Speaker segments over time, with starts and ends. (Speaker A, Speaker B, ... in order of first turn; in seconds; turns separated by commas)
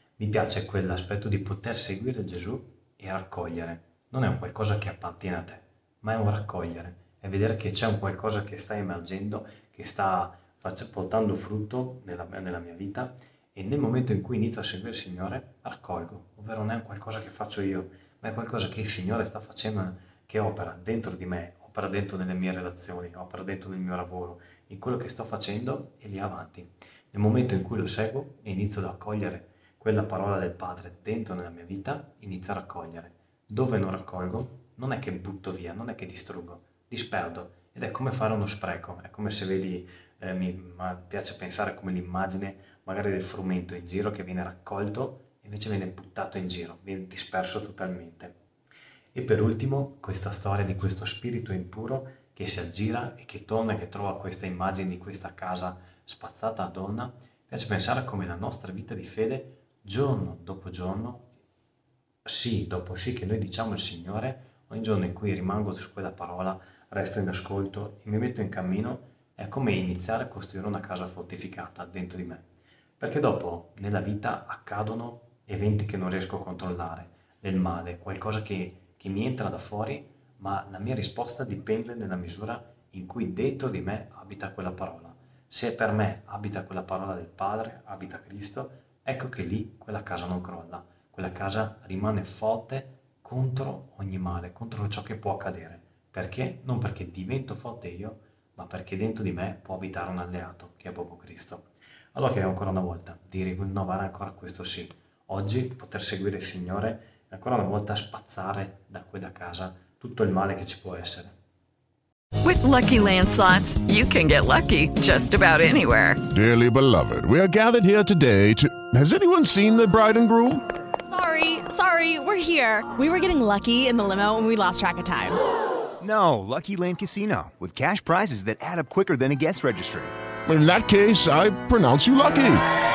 Speaker A: 0.2-48.4, Speaker A: 49.1-61.3, Speaker A: 62.3-72.4, Speaker A: 73.0-111.3, Speaker B: 112.4-116.2, Speaker C: 116.3-120.6, Speaker D: 121.1-125.4, Speaker E: 126.0-130.0, Speaker C: 130.5-132.6